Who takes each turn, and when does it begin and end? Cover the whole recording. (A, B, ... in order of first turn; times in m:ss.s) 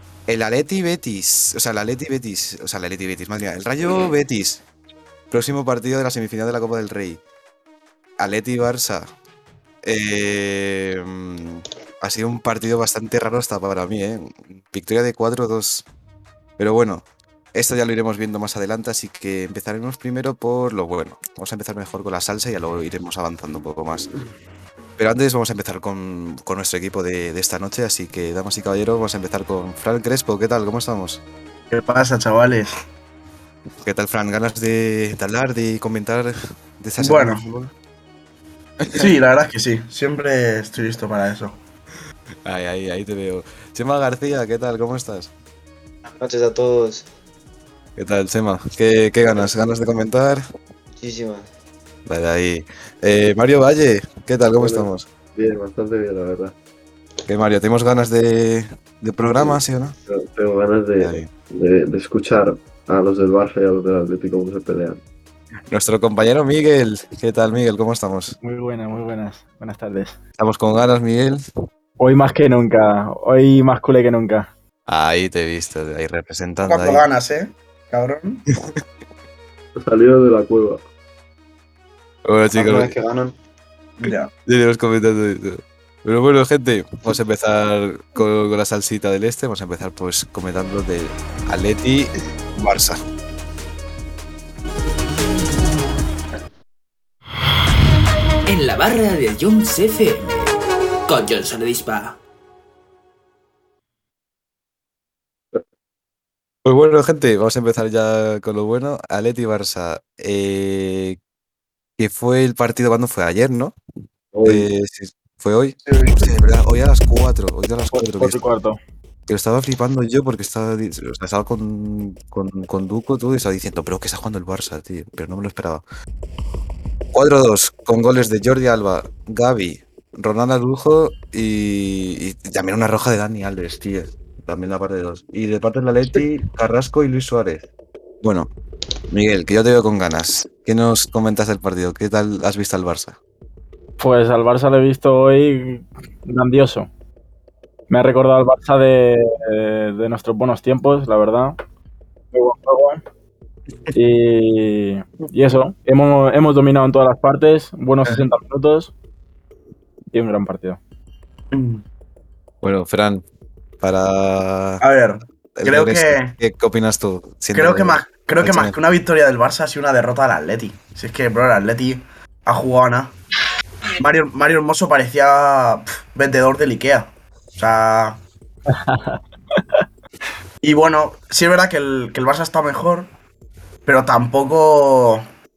0:00.3-0:04.6 A
0:05.3-0:07.2 A
0:08.2-0:09.1 A
0:09.8-0:15.8 A
0:16.6-0:24.1 A
0:25.0-0:31.2 A
0:31.7-0:32.8 B
0:33.8-0:37.7 A
0:37.0-0:37.4 B
0:38.8-0:39.1 A
0:38.9-0:41.6 B
0:42.4-0:45.3 A
0:46.2-0:47.0 C
0:48.0-0:50.4 A
0:51.0-0:51.5 C
0:52.0-0:55.1 A
0:54.5-0:56.5 D
0:57.2-0:59.9 A
0:59.2-1:05.0 D
1:01.0-1:01.3 A
1:05.7-1:08.4 A
1:08.4-1:10.1 E
1:10.4-1:11.4 A
1:12.0-1:14.5 E
1:14.9-1:17.0 A
1:16.7-1:18.4 B
1:19.8-1:20.8 D
1:22.2-1:23.0 A
1:22.6-1:23.3 C
1:24.0-1:24.3 B
1:24.0-1:33.0 A
1:38.4-1:42.2 F
1:46.6-1:51.2 A
1:52.0-1:53.8 A
1:54.3-1:54.7 D
1:54.4-1:58.4 A
1:55.9-1:56.3 B
1:57.9-1:58.8 E
1:59.3-2:05.8 A
2:07.1-2:17.7 A
2:18.2-2:18.5 A
2:19.1-2:23.2 A
2:24.0-2:26.9 E
2:27.9-2:31.6 E
2:32.3-2:33.0 E
2:33.9-2:38.9 E
2:40.1-2:40.8 E
2:41.5-2:41.8 B
2:42.6-2:43.2 A
2:43.8-2:44.8 A
2:44.8-2:46.3 B
2:45.6-2:48.8 A
2:47.5-2:53.1 B
2:54.0-2:58.2 B
2:58.7-2:59.2 E
3:00.6-3:03.1 B
3:03.8-3:05.2 B